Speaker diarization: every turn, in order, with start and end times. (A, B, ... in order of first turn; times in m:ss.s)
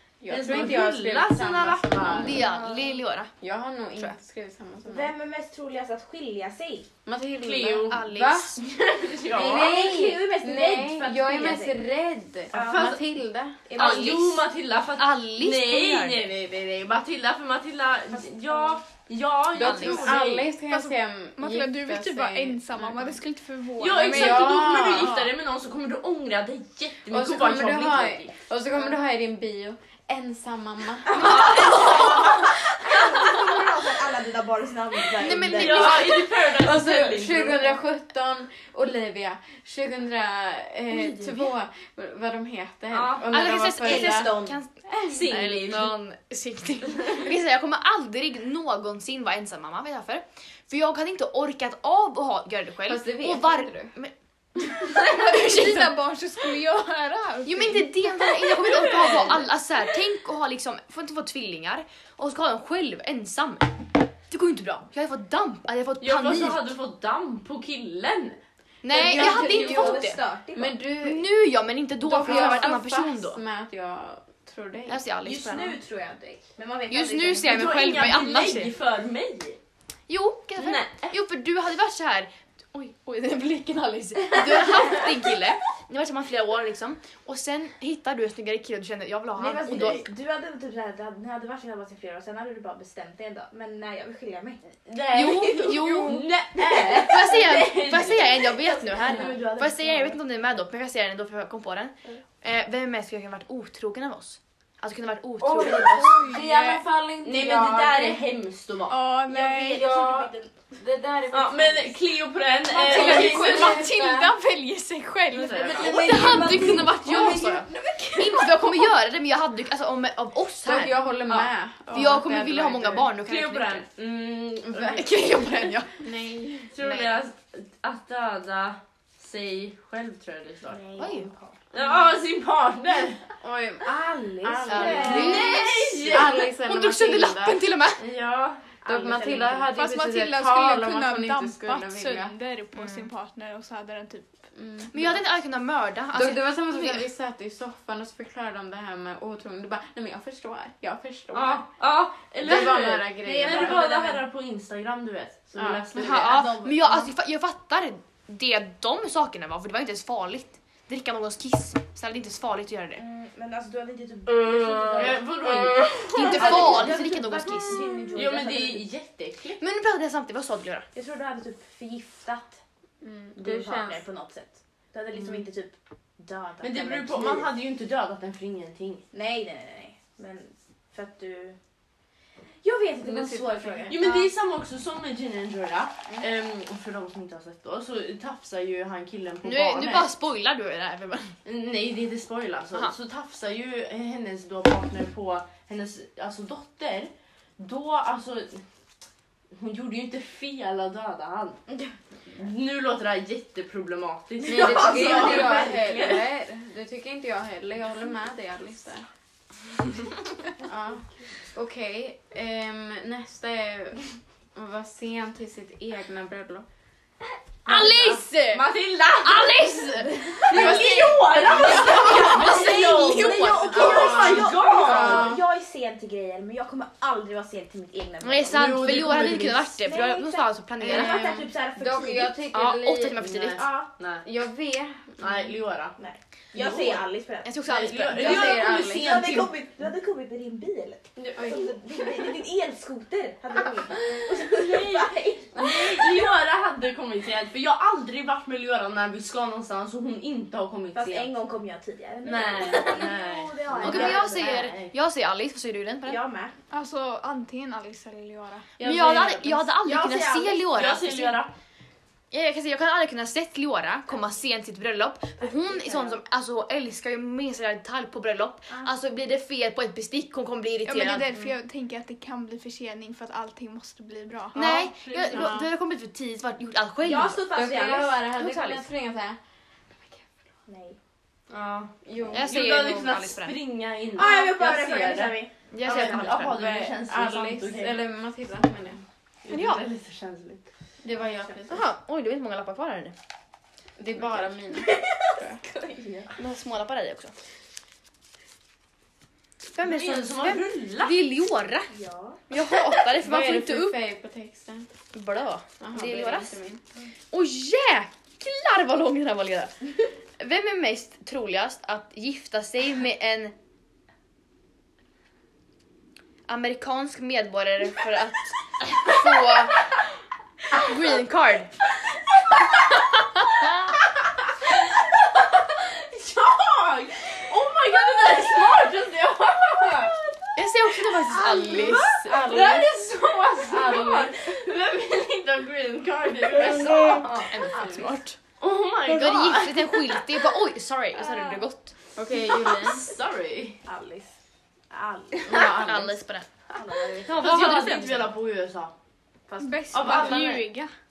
0:00.2-0:02.4 A
0:00.3-0:02.4 B
0:02.1-0:03.3 C
0:03.4-0:05.1 A
0:04.8-0:06.9 D
0:07.0-0:08.6 A
0:07.4-0:08.0 B
0:07.9-0:08.6 C
0:08.6-0:09.8 B
0:09.3-0:13.6 A
0:09.4-0:11.8 D
0:12.5-0:13.0 D
0:12.5-0:13.0 B
0:13.6-0:14.4 D
0:13.7-0:20.5 B
0:13.8-0:14.4 C
0:15.0-0:16.3 C
0:18.1-0:18.8 D
0:19.5-0:22.9 A
0:19.6-0:20.2 C
0:20.6-0:24.7 E
0:23.8-0:28.4 B
0:23.9-0:25.3 A
0:27.1-0:31.3 A
0:31.1-0:36.1 D
0:31.1-0:32.4 C
0:31.1-0:32.3 B
0:35.2-0:36.2 C
0:35.5-0:37.8 B
0:36.4-0:45.2 A
0:42.9-0:43.3 B
0:43.3-0:56.0 C
0:43.8-0:44.6 D
0:45.1-0:45.9 B
0:52.9-0:53.9 A
0:54.8-0:58.5 E
0:57.4-1:03.7 C
0:58.8-0:59.4 B
1:04.3-1:06.6 C
1:06.0-1:08.4 B
1:08.8-1:10.2 C
1:08.9-1:10.8 D
1:08.9-1:11.3 A
1:11.0-1:13.4 C
1:12.0-1:15.0 A
1:14.9-1:15.7 C
1:15.2-1:17.7 D
1:16.9-1:18.7 C
1:17.4-1:19.6 B
1:20.1-1:30.1 C
1:20.6-1:21.2 B
1:29.4-1:34.6 D
1:34.8-1:38.5 B
1:35.1-1:36.3 C
1:36.1-1:37.4 D
1:36.9-1:46.3 C
1:38.6-1:40.2 D
1:39.0-1:39.6 B
1:45.4-1:48.2 A
1:45.8-1:46.8 E
1:47.2-1:49.0 B
1:48.9-1:49.9 E
1:49.3-1:50.7 D
1:49.8-1:51.9 A
1:51.3-1:53.9 B
1:52.7-1:55.8 E
1:52.8-1:54.3 A
1:55.3-1:56.2 B
1:55.5-1:58.4 D
1:55.7-2:01.0 C
1:57.1-1:58.5 A
2:00.6-2:03.1 A
2:01.9-2:03.8 C
2:03.2-2:05.2 B
2:04.9-2:06.0 C
2:06.0-2:06.7 A
2:06.7-2:10.8 B
2:06.8-2:07.2 C
2:10.7-2:11.6 D
2:11.0-2:11.3 C
2:11.7-2:13.3 B
2:13.4-2:17.6 A
2:13.9-2:15.6 D
2:14.5-2:16.5 B
2:14.7-2:18.0 C
2:18.0-2:19.6 B
2:18.8-2:22.3 A
2:18.8-2:19.6 D
2:19.7-2:24.3 E
2:22.7-2:23.1 C
2:24.5-2:25.2 A
2:24.9-2:27.1 C
2:26.1-2:31.7 A
2:31.3-2:36.6 B
2:32.3-2:33.8 A
2:33.2-2:34.2 D
2:35.6-2:36.0 A
2:35.9-2:43.0 C
2:36.2-2:36.9 D
2:43.0-2:45.2 D
2:44.9-2:47.0 B
2:45.4-2:45.9 A
2:46.0-2:48.9 D
2:46.1-2:47.8 C
2:47.8-2:49.6 B
2:49.6-2:50.9 C
2:50.9-2:52.6 D
2:53.0-2:54.0 A
2:53.4-2:57.5 D
2:56.6-2:59.0 B
2:59.1-3:01.6 D
3:02.6-3:04.0 D
3:03.0-3:04.1 A
3:03.9-3:10.1 B
3:09.4-3:11.4 C
3:11.4-3:18.6 B
3:19.5-3:21.6 B
3:22.3-3:26.2 B
3:24.4-3:29.1 A
3:24.5-3:26.2 D
3:30.6-3:36.6 A
3:37.6-3:39.7 B
3:37.6-3:43.8 C
3:40.4-3:45.3 B
3:40.6-3:40.8 D
3:41.4-3:49.1 D
3:43.7-3:45.4 A
3:48.2-3:51.3 C
3:48.5-3:49.7 B
3:49.8-3:52.4 D
3:50.8-3:53.2 A
3:52.5-3:53.6 C
3:53.2-3:54.2 B
3:54.2-3:55.2 A
3:55.2-3:56.0 B
3:56.0-3:57.5 D
3:56.5-3:57.0 B
3:57.4-3:58.7 C
3:57.7-3:59.5 B
3:58.1-4:06.0 D
3:58.2-3:59.3 A
4:01.2-4:01.7 B
4:01.4-4:01.6 A
4:04.4-4:11.3 B
4:10.9-4:14.5 D
4:12.2-4:14.9 B
4:13.8-4:16.2 C
4:16.0-4:16.5 D
4:16.7-4:18.7 E
4:18.8-4:21.5 B
4:18.8-4:21.4 C
4:19.8-4:20.6 D
4:22.3-4:31.3 C
4:25.4-4:26.2 D
4:30.8-4:34.8 E
4:34.5-4:37.4 C
4:34.6-4:35.5 B
4:35.3-4:35.6 A
4:37.0-4:38.3 D
4:37.5-4:39.4 A
4:38.4-4:38.8 C
4:40.7-4:41.0 D
4:41.5-4:48.0 B
4:42.0-4:42.6 A
4:42.3-4:43.6 C
4:44.1-4:45.5 D
4:45.7-4:46.6 C
4:46.3-4:49.0 A
4:49.4-4:50.6 B
4:49.5-4:49.8 C
4:51.0-4:51.8 A
4:51.7-4:53.1 C
4:54.0-4:55.6 A
4:54.7-4:56.4 D
4:56.4-4:57.3 C
4:59.7-5:01.9 C
4:59.8-5:01.2 B
5:01.9-5:02.4 D
5:02.5-5:04.0 C
5:03.2-5:04.9 A
5:05.1-5:06.6 C
5:05.8-5:06.8 A
5:07.3-5:09.8 C
5:10.4-5:13.5 C
5:16.5-5:19.9 C
5:20.7-5:21.7 C
5:23.4-5:23.9 C
5:24.6-5:37.5 B
5:30.6-5:32.1 C
5:31.3-5:32.9 A
5:33.6-5:34.4 A
5:37.0-5:38.1 D
5:37.2-5:38.4 C
5:38.6-5:40.2 B
5:39.0-5:41.9 C
5:41.2-5:41.6 D
5:42.2-5:43.1 A
5:42.7-5:43.8 B
5:43.8-5:44.3 D
5:44.9-5:45.6 D
5:45.5-5:46.2 A
5:45.5-5:46.5 C
5:46.7-5:47.5 D
5:47.2-5:48.3 C
5:47.3-5:48.9 B
5:49.5-5:50.4 D
5:49.6-5:50.9 E
5:49.9-5:50.7 B